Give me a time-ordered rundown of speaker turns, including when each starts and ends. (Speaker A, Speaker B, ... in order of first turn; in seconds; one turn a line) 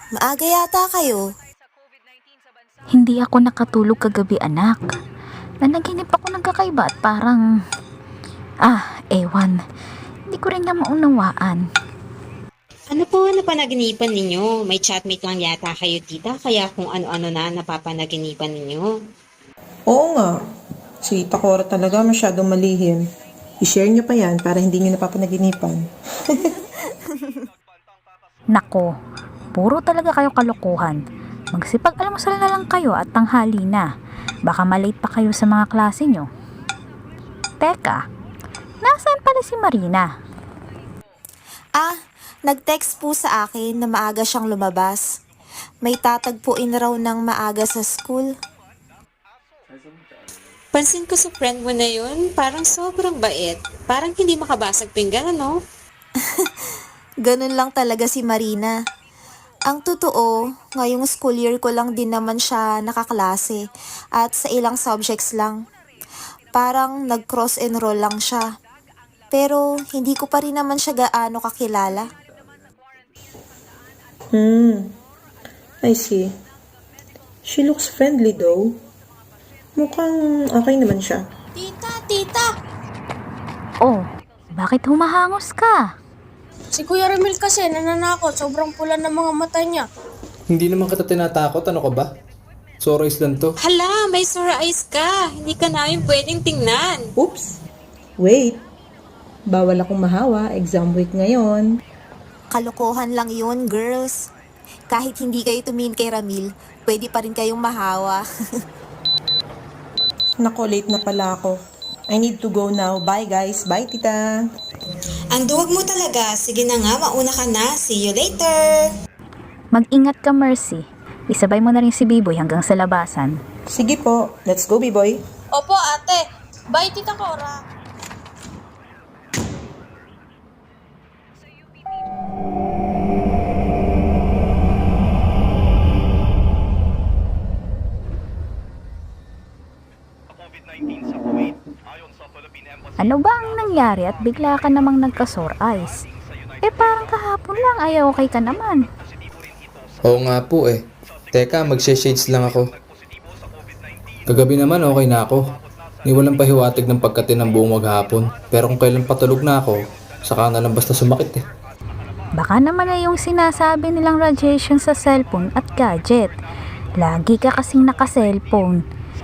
Speaker A: 0.2-1.2
Speaker B: 2.9-4.9
Speaker B: 5.6-7.4
Speaker B: 8.7-9.6
Speaker B: 10.3-11.6
Speaker C: 12.9-18.9
Speaker D: 19.9-20.3
Speaker D: 21.0-23.0
Speaker D: 23.6-25.8
Speaker B: 28.5-28.9
Speaker B: 29.6-31.0
Speaker B: 31.5-33.9
Speaker B: 34.5-36.3
Speaker B: 37.6-38.0
Speaker B: 38.8-40.1
Speaker A: 42.5-45.0
Speaker A: 45.8-48.3
Speaker C: 50.7-55.5
Speaker A: 57.2-58.7
Speaker A: 59.7-63.6
Speaker A: 64.2-65.6
Speaker A: 66.5-68.4
Speaker A: 69.3-72.1
Speaker D: 74.3-74.8
Speaker D: 75.8-76.3
Speaker D: 77.5-78.7
Speaker D: 79.8-81.2
Speaker E: 81.5-82.5
Speaker B: 84.5-85.8
Speaker E: 86.7-89.8
Speaker F: 90.5-92.1
Speaker F: 92.8-93.5
Speaker C: 93.6-97.0
Speaker D: 97.2-97.5
Speaker D: 98.2-98.6
Speaker D: 99.5-101.7
Speaker A: 102.5-104.2
Speaker A: 104.9-108.2
Speaker D: 110.4-111.5
Speaker D: 112.1-114.2
Speaker C: 115.3-118.9
Speaker B: 119.7-123.4
Speaker D: 123.7-125.2
Speaker E: 125.5-127.6
Speaker B: 143.0-146.0
Speaker B: 146.6-148.8
Speaker F: 150.1-150.8
Speaker F: 151.3-152.7
Speaker F: 154.3-155.4
Speaker F: 156.0-161.4
Speaker B: 162.4-166.3
Speaker B: 167.0-168.8